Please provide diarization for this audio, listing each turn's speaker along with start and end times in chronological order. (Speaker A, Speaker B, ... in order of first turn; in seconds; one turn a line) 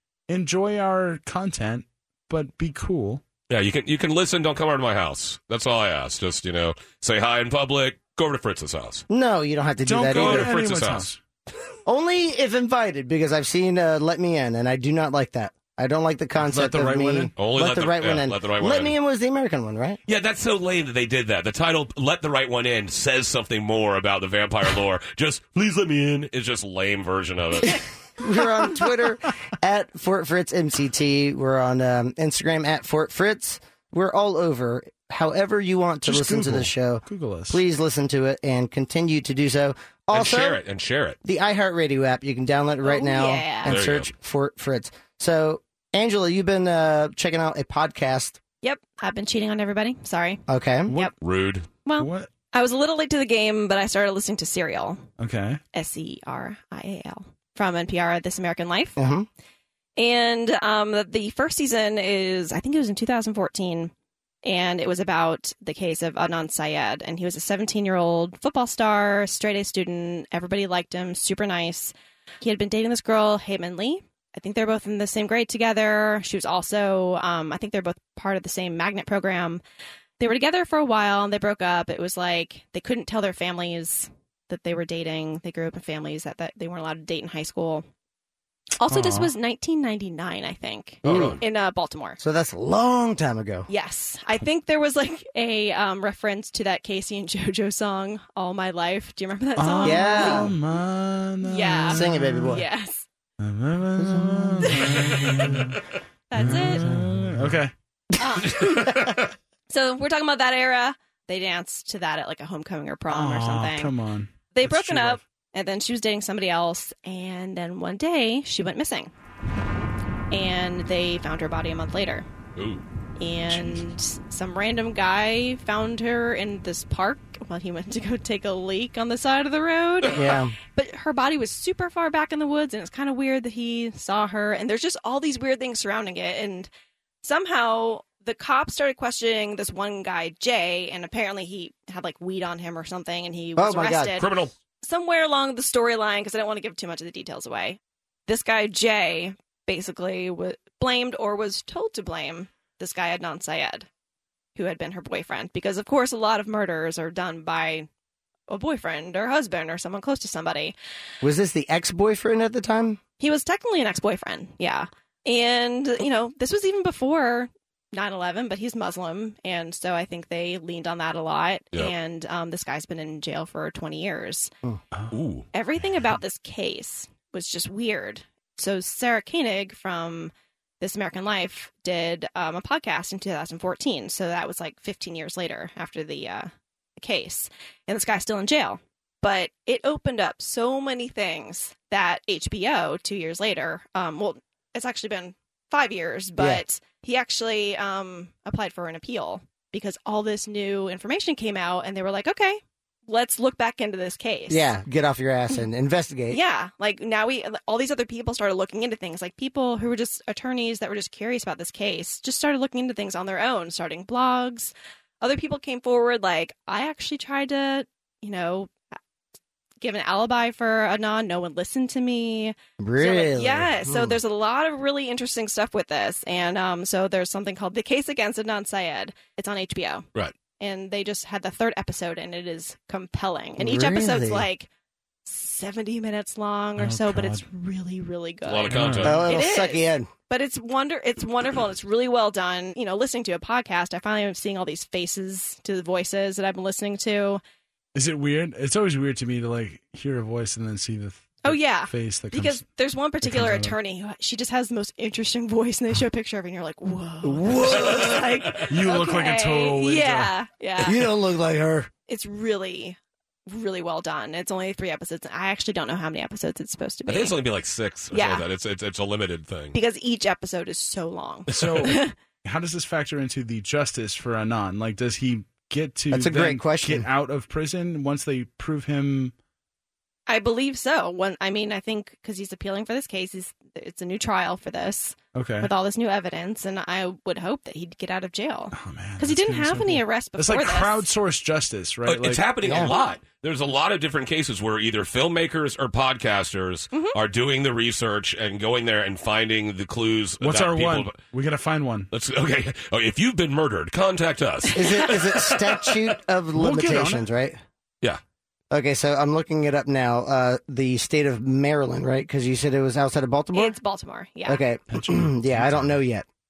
Speaker A: 0.3-3.2
Speaker B: 3.5-9.0
Speaker C: 9.1-10.5
Speaker A: 9.8-11.2
Speaker B: 10.1-11.1
Speaker C: 11.8-20.0
Speaker A: 16.4-17.3
Speaker B: 17.4-18.9
Speaker B: 20.1-27.8
Speaker C: 28.2-40.6
Speaker A: 36.0-37.6
Speaker B: 40.1-41.2
Speaker C: 41.2-48.4
Speaker D: 42.8-43.7
Speaker B: 43.6-44.1
Speaker D: 48.6-51.1
Speaker C: 50.5-50.9
Speaker B: 51.2-51.7
Speaker D: 51.8-55.0
Speaker A: 52.0-52.3
Speaker A: 55.2-55.6
Speaker D: 55.7-59.0
Speaker C: 59.0-59.3
Speaker D: 60.0-63.9
Speaker D: 64.4-79.6
Speaker D: 80.2-87.8
Speaker D: 88.8-92.2
Speaker A: 88.9-89.3
Speaker B: 91.0-91.4
Speaker C: 91.0-91.4
Speaker C: 92.2-93.7
Speaker D: 93.7-100.5
Speaker A: 99.6-102.5
Speaker C: 99.8-100.5
Speaker D: 101.4-103.0
Speaker C: 101.9-102.6
Speaker A: 103.4-105.8
Speaker C: 104.0-104.7
Speaker D: 104.6-105.1
Speaker D: 106.3-106.9
Speaker A: 106.3-107.7
Speaker D: 108.2-109.1
Speaker C: 108.6-108.9
Speaker D: 109.7-113.9
Speaker A: 113.1-115.2
Speaker D: 114.5-119.1
Speaker D: 120.3-122.2
Speaker B: 122.5-122.8
Speaker D: 123.2-136.7
Speaker A: 123.5-123.8
Speaker C: 130.1-130.6
Speaker D: 137.2-153.9
Speaker C: 143.6-144.2
Speaker B: 144.2-144.5
Speaker D: 154.5-157.9
Speaker D: 158.5-160.7
Speaker C: 161.2-163.0
Speaker D: 163.2-174.5
Speaker B: 175.1-175.4
Speaker D: 175.5-204.7
Speaker C: 204.5-206.4
Speaker D: 206.3-218.7
Speaker D: 219.8-230.1
Speaker C: 222.8-224.2
Speaker D: 230.6-234.7
Speaker C: 233.6-234.5
Speaker D: 235.2-247.4
Speaker A: 236.8-237.4
Speaker B: 238.4-239.3
Speaker A: 238.7-239.2
Speaker C: 239.0-240.1
Speaker A: 247.9-252.6
Speaker D: 251.4-261.1
Speaker A: 253.2-253.8
Speaker C: 257.2-258.5
Speaker A: 258.7-260.3
Speaker C: 260.8-261.9
Speaker D: 262.1-267.4
Speaker B: 267.1-269.8
Speaker D: 268.1-268.4
Speaker D: 269.7-272.1
Speaker A: 271.5-279.3
Speaker C: 276.1-277.1
Speaker D: 280.3-291.0
Speaker A: 285.3-285.7
Speaker A: 288.7-292.6
Speaker B: 292.1-301.2
Speaker C: 292.6-292.9
Speaker D: 296.9-297.2
Speaker A: 300.4-302.1
Speaker B: 302.1-305.7
Speaker C: 304.7-307.6
Speaker A: 306.6-307.2
Speaker C: 308.7-313.8
Speaker D: 313.5-314.6
Speaker C: 314.4-316.2
Speaker A: 314.9-315.9